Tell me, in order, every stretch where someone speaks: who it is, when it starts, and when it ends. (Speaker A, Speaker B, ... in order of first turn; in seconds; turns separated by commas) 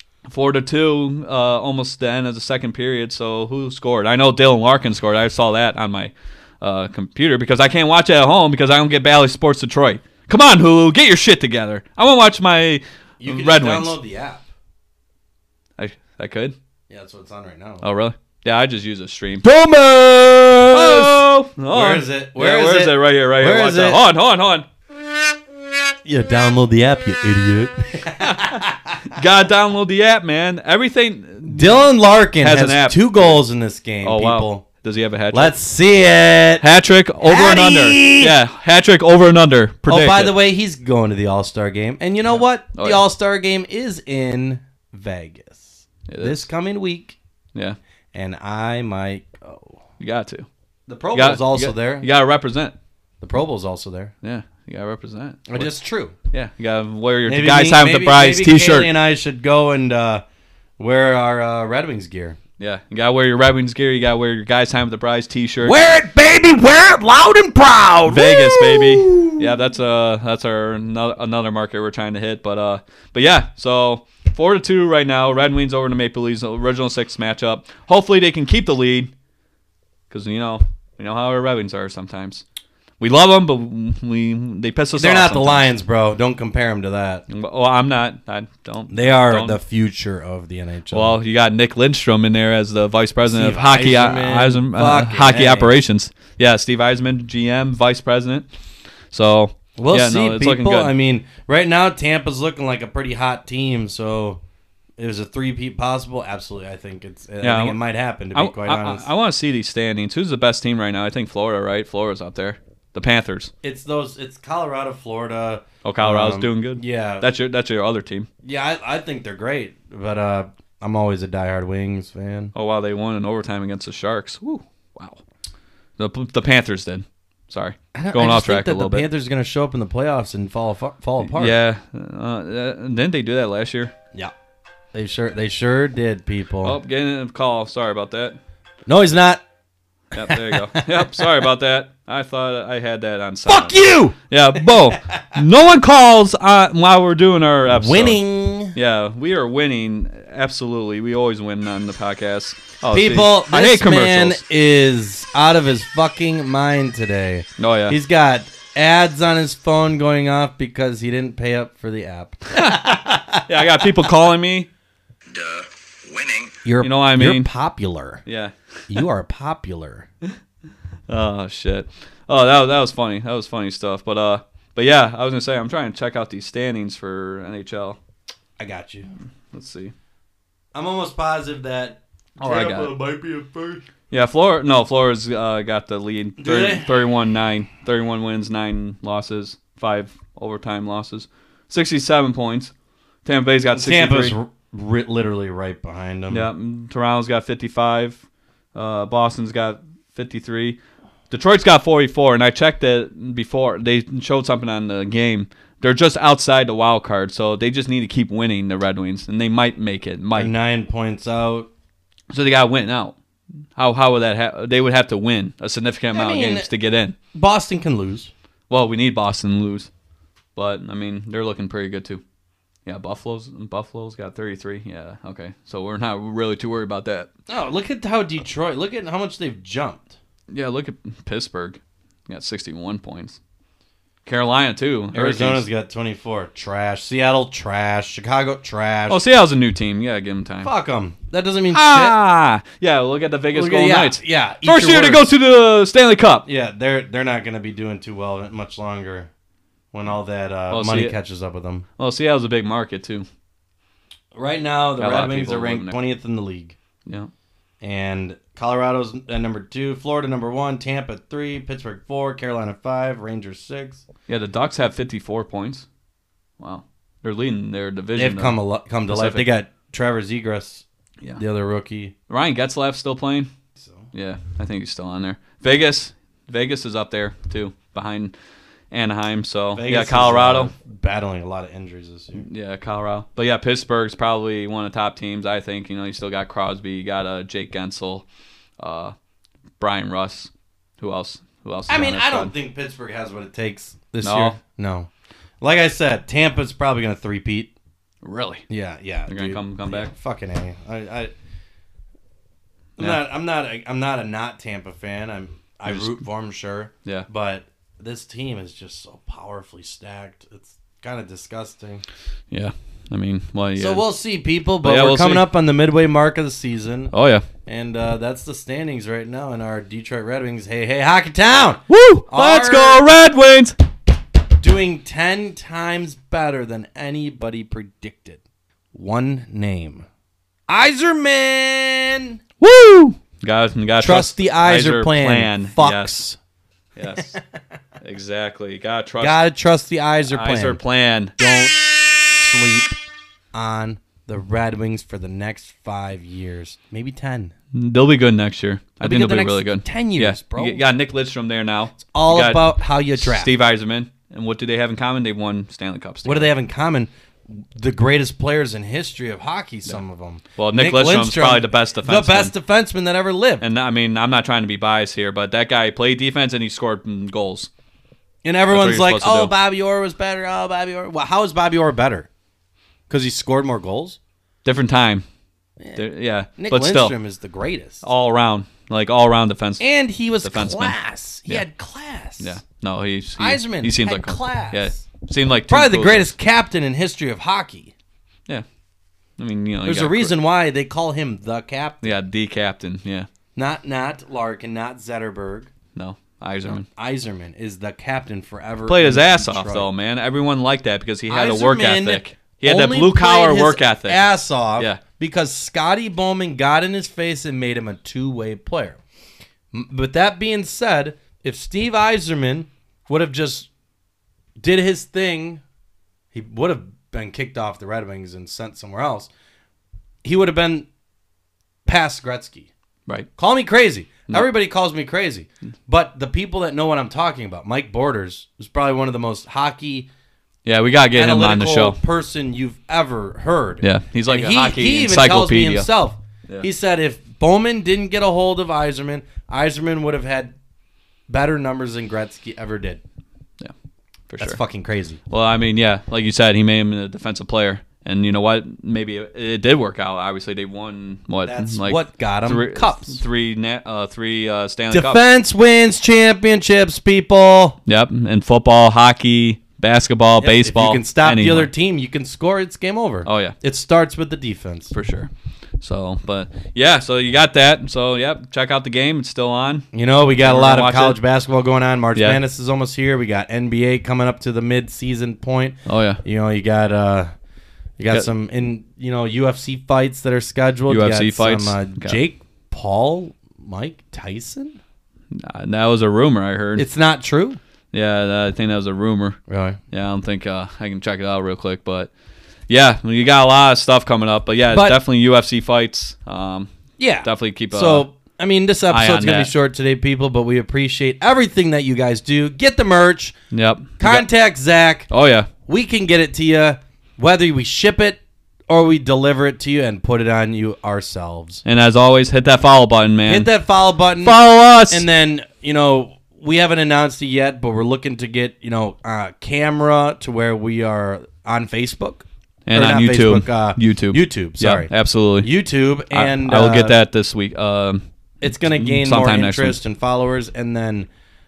Speaker A: 0.2-13.9, Speaker B: 13.2-14.4, Speaker A: 15.8-16.5, Speaker B: 16.9-17.8, Speaker A: 17.8-19.4, Speaker B: 19.4-21.2, Speaker A: 20.7-24.6, Speaker B: 21.7-24.0, Speaker B: 26.1-29.1, Speaker A: 28.2-31.9, Speaker B: 31.4-34.6, Speaker A: 32.4-33.4, Speaker A: 34.0-35.5, Speaker B: 35.3-36.6, Speaker A: 36.6-40.3, Speaker B: 37.2-38.3, Speaker B: 39.9-47.2, Speaker A: 42.3-43.0, Speaker A: 46.1-46.5, Speaker B: 48.1-49.8, Speaker A: 50.0-50.5, Speaker B: 50.9-52.1, Speaker A: 51.1-52.8, Speaker B: 53.2-54.1, Speaker A: 54.2-55.7, Speaker B: 55.5-56.1, Speaker A: 56.3-58.9, Speaker B: 57.3-60.2, Speaker B: 60.8-62.4, Speaker A: 62.6-65.9, Speaker B: 65.6-69.5, Speaker A: 68.1-79.1, Speaker A: 80.1-82.4, Speaker A: 83.0-85.7, Speaker B: 85.0-87.2, Speaker A: 87.3-89.6, Speaker B: 88.9-91.2, Speaker A: 90.9-98.5, Speaker B: 93.2-95.7, Speaker A: 99.1-100.9, Speaker B: 99.8-104.4, Speaker B: 105.0-109.1, Speaker A: 107.4-107.8, Speaker A: 108.3-113.5, Speaker B: 113.6-117.2, Speaker A: 115.8-118.3, Speaker B: 118.4-122.5, Speaker A: 122.5-125.2, Speaker A: 126.0-129.1, Speaker B: 127.9-131.6, Speaker A: 131.2-133.9, Speaker B: 134.9-136.8, Speaker A: 136.6-138.4, Speaker B: 138.8-139.4, Speaker A: 140.1-148.2, Speaker B: 140.1-141.4, Speaker B: 143.4-144.2, Speaker B: 147.7-148.8, Speaker A: 148.7-154.4, Speaker B: 152.9-163.9, Speaker A: 157.6-158.0, Speaker A: 162.5-164.7, Speaker A: 165.3-167.5, Speaker B: 166.6-168.2, Speaker A: 168.2-169.0, Speaker B: 168.9-170.1, Speaker A: 171.1-178.0, Speaker B: 178.6-179.1, Speaker A: 179.5-179.9, Speaker B: 180.7-183.8, Speaker A: 182.4-182.9, Speaker A: 184.1-192.7, Speaker B: 186.4-186.9, Speaker A: 193.2-194.3, Speaker B: 193.7-196.5, Speaker A: 196.3-198.2, Speaker A: 198.7-200.8, Speaker A: 201.3-210.5, Speaker B: 210.3-211.7, Speaker A: 212.3-213.2, Speaker A: 213.8-217.2, Speaker B: 216.1-216.7, Speaker B: 217.3-218.3, Speaker A: 218.7-219.9, Speaker A: 220.5-222.2, Speaker A: 222.8-227.3, Speaker B: 227.5-230.2, Speaker A: 230.5-233.4, Speaker A: 234.2-235.6, Speaker B: 235.1-239.2, Speaker A: 239.1-240.7, Speaker B: 240.6-242.1, Speaker A: 241.7-246.4, Speaker B: 243.5-245.3, Speaker B: 246.4-249.3, Speaker B: 249.9-251.8, Speaker A: 250.7-251.2, Speaker A: 252.0-253.2, Speaker B: 254.3-256.8, Speaker A: 255.0-255.9, Speaker A: 257.1-257.3, Speaker B: 257.8-264.0, Speaker A: 264.3-265.9, Speaker A: 266.6-268.6, Speaker B: 268.1-270.8, Speaker A: 269.1-269.4, Speaker B: 271.4-272.1, Speaker A: 272.3-273.5, Speaker B: 273.7-274.1, Speaker A: 274.1-278.3, Speaker A: 278.9-280.7, Speaker B: 279.7-282.5, Speaker A: 282.4-288.2, Speaker A: 288.8-289.1, Speaker A: 289.8-292.5, Speaker B: 291.9-295.1, Speaker A: 294.2-294.6, Speaker B: 295.6-297.7, Speaker A: 298.2-298.6, Speaker B: 298.7-301.3, Speaker A: 299.3-300.1, Speaker B: 303.0-312.0, Speaker A: 305.9-306.2, Speaker A: 312.5-314.0, Speaker B: 313.8-317.1, Speaker A: 314.8-315.5, Speaker A: 317.1-317.4, Speaker B: 317.6-323.0, Speaker A: 321.9-323.8, Speaker B: 324.6-328.4, Speaker B: 328.9-330.1, Speaker B: 330.7-332.4, Speaker A: 332.6-336.1, Speaker B: 334.0-336.4, Speaker A: 336.9-337.4, Speaker B: 337.1-337.4, Speaker A: 338.0-339.4, Speaker B: 339.2-340.8, Speaker A: 340.3-341.3, Speaker B: 341.4-342.9, Speaker B: 343.5-347.5, Speaker A: 347.7-356.5, Speaker B: 349.0-350.8, Speaker B: 352.0-353.5, Speaker B: 356.2-363.6, Speaker A: 360.6-362.5, Speaker A: 363.6-367.7, Speaker B: 368.4-372.3, Speaker A: 368.7-369.5, Speaker B: 373.1-374.2, Speaker A: 374.6-375.2, Speaker A: 375.9-377.1, Speaker B: 376.6-378.0, Speaker A: 378.0-379.8, Speaker B: 379.8-382.6, Speaker A: 380.4-380.9, Speaker A: 382.4-386.3, Speaker B: 383.4-385.0, Speaker B: 385.7-387.9, Speaker A: 389.4-390.4, Speaker B: 389.8-392.1, Speaker A: 392.0-393.3, Speaker B: 393.6-395.7, Speaker A: 395.9-396.9, Speaker B: 396.7-399.9, Speaker A: 398.9-404.2, Speaker B: 401.3-409.0, Speaker B: 409.7-413.7, Speaker B: 414.6-415.6, Speaker B: 416.3-419.3, Speaker B: 420.2-420.9, Speaker B: 421.9-422.7, Speaker B: 423.4-430.1, Speaker A: 430.6-432.0, Speaker B: 431.1-440.5, Speaker A: 433.8-435.9, Speaker B: 441.3-443.0, Speaker A: 444.3-444.6, Speaker B: 444.4-445.2, Speaker A: 445.3-455.2, Speaker B: 451.4-453.2, Speaker B: 454.9-457.8, Speaker A: 457.9-461.7, Speaker B: 460.4-464.9, Speaker A: 463.2-463.6, Speaker A: 464.9-465.3, Speaker A: 465.8-469.9, Speaker B: 469.9-477.3, Speaker A: 470.4-471.2, Speaker A: 472.1-472.4, Speaker A: 475.9-476.2, Speaker B: 478.0-484.8, Speaker A: 480.9-482.2, Speaker A: 485.3-486.9, Speaker B: 486.8-487.6, Speaker A: 487.9-489.4, Speaker B: 489.5-489.8, Speaker A: 489.9-492.1, Speaker A: 492.7-496.7, Speaker B: 494.7-495.0, Speaker B: 497.0-503.4, Speaker A: 497.2-498.1, Speaker A: 498.9-499.5, Speaker A: 503.5-504.2, Speaker B: 504.0-505.1, Speaker A: 505.1-505.5, Speaker B: 505.7-511.6, Speaker A: 511.6-513.5, Speaker B: 513.3-527.0, Speaker A: 514.2-515.0, Speaker A: 522.6-525.5, Speaker A: 526.1-528.0, Speaker B: 528.4-531.1, Speaker A: 528.6-529.8